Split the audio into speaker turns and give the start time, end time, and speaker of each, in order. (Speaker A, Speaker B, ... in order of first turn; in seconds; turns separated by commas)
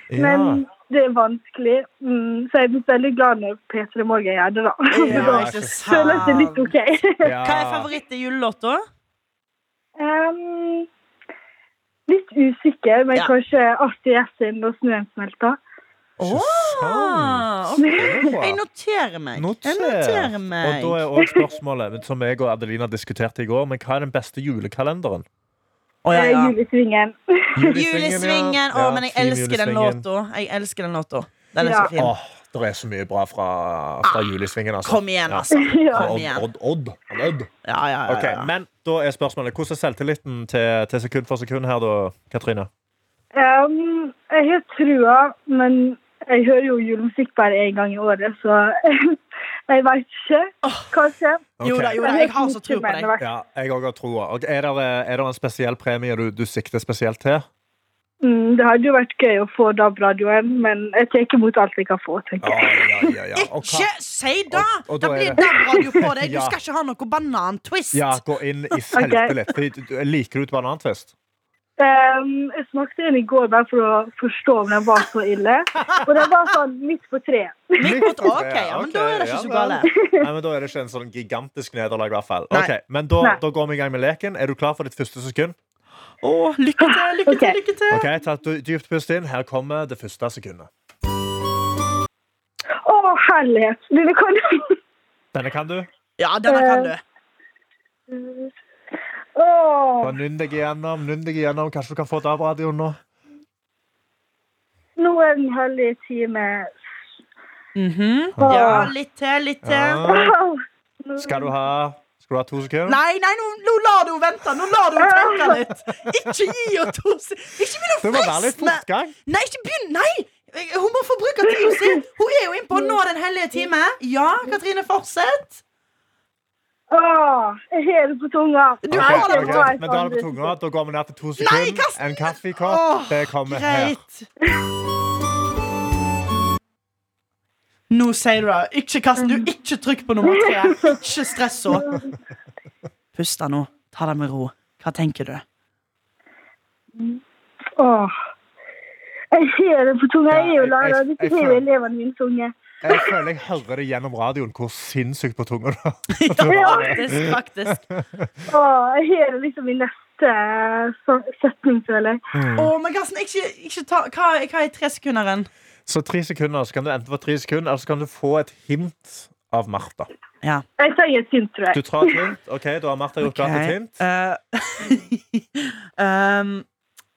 Speaker A: 0.1-0.6, Speaker B: 0.1-7.3, Speaker C: 4.9-6.7, Speaker A: 5.1-6.4, Speaker A: 7.2-7.9, Speaker C: 7.4-8.8, Speaker B: 10.0-10.9, Speaker B: 12.1-15.6, Speaker C: 16.2-21.0, Speaker A: 16.2-18.6, Speaker B: 17.8-18.3, Speaker A: 19.4-25.2, Speaker C: 26.0-26.5, Speaker B: 26.1-27.8, Speaker A: 27.5-30.0, Speaker C: 27.6-32.1, Speaker B: 31.6-31.9, Speaker A: 31.9-37.5, Speaker C: 34.8-36.4, Speaker B: 35.5-36.1, Speaker C: 37.6-38.5, Speaker A: 38.0-42.7, Speaker B: 43.3-49.2, Speaker B: 49.7-53.2, Speaker A: 51.6-52.0, Speaker C: 51.6-53.1, Speaker A: 53.2-57.5, Speaker B: 58.2-63.1, Speaker A: 62.4-63.9, Speaker C: 63.4-68.2, Speaker A: 64.5-66.5, Speaker A: 67.9-71.1, Speaker B: 68.9-69.3, Speaker B: 71.8-78.1, Speaker C: 77.8-79.9, Speaker A: 77.8-85.5, Speaker B: 80.0-80.2, Speaker C: 86.2-88.0, Speaker B: 86.8-87.5, Speaker A: 87.9-90.7, Speaker B: 92.8-94.8, Speaker A: 95.3-95.9, Speaker C: 96.2-97.0, Speaker B: 96.5-96.9, Speaker B: 98.1-98.5, Speaker B: 99.3-100.2, Speaker A: 100.0-103.0, Speaker B: 105.0-106.7, Speaker C: 107.7-110.0, Speaker A: 108.3-108.9, Speaker B: 108.4-108.9, Speaker A: 109.6-110.3, Speaker B: 110.1-111.5, Speaker A: 111.2-113.0, Speaker C: 112.9-125.6, Speaker B: 115.0-115.6, Speaker A: 118.0-119.1, Speaker B: 121.5-121.9, Speaker B: 126.9-130.5, Speaker C: 128.8-129.7, Speaker A: 128.9-134.0, Speaker C: 131.4-134.3, Speaker C: 137.9-141.9, Speaker B: 140.2-141.0, Speaker B: 141.7-142.1, Speaker C: 143.1-145.4, Speaker B: 147.8-148.1, Speaker B: 149.3-153.2, Speaker A: 150.3-151.6, Speaker A: 152.8-157.3, Speaker C: 156.1-157.8, Speaker B: 156.5-157.0, Speaker A: 157.9-158.3, Speaker B: 158.5-162.2, Speaker A: 162.3-162.7, Speaker C: 162.6-165.5, Speaker A: 165.9-170.1, Speaker B: 170.8-172.3, Speaker A: 171.7-174.0, Speaker C: 173.2-176.7